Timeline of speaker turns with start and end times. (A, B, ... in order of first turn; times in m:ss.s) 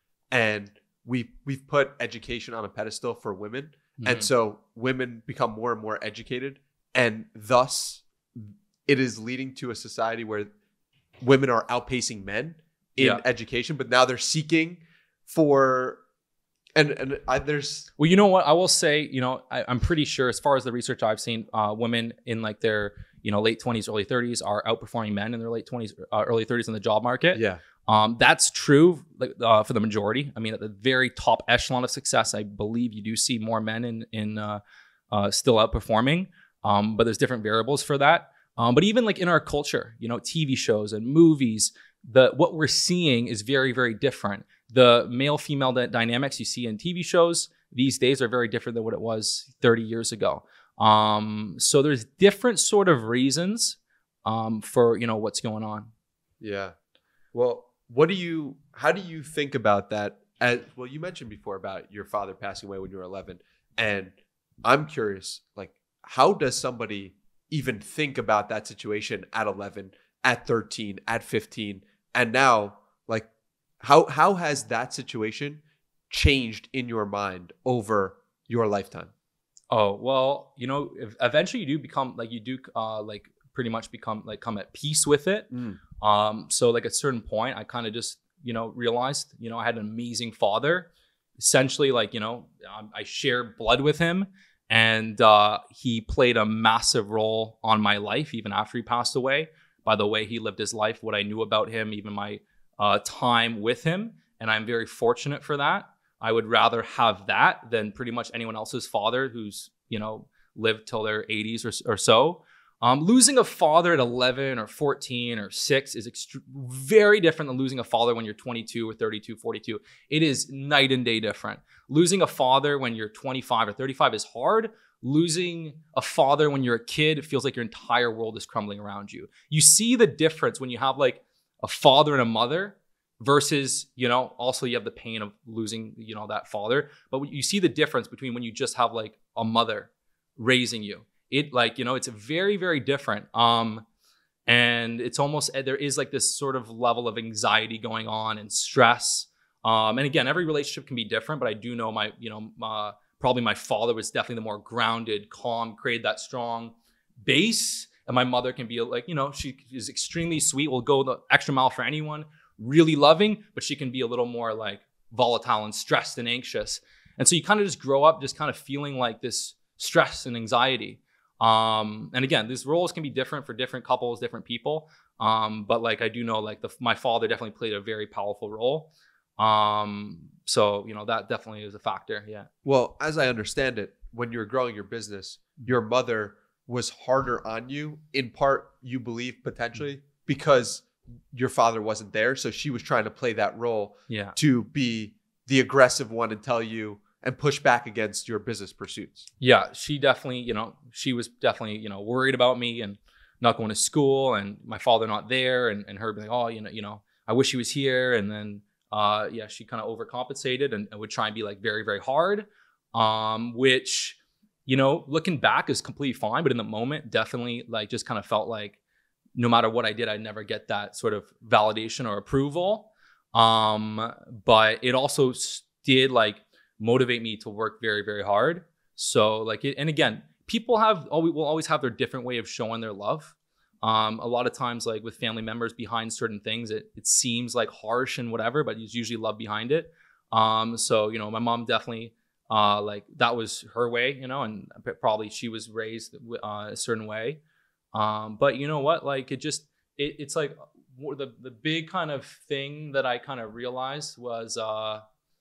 0:00.3-0:10.5 A
0:04.0-0:04.3 B
0:11.2-0:16.0 A
0:16.8-0:17.9 A
0:18.0-0:55.9 B
0:27.3-0:27.6 A
0:56.4-0:56.8 A
0:57.3-1:13.3 A
1:13.8-1:19.1 A
1:19.7-2:23.8 B
1:25.5-1:25.8 A
2:24.5-3:02.5 B
3:02.6-3:19.3 A
3:14.1-3:14.4 B
3:19.4-3:38.8 B
3:39.4-4:07.4 B
4:07.9-4:15.0 B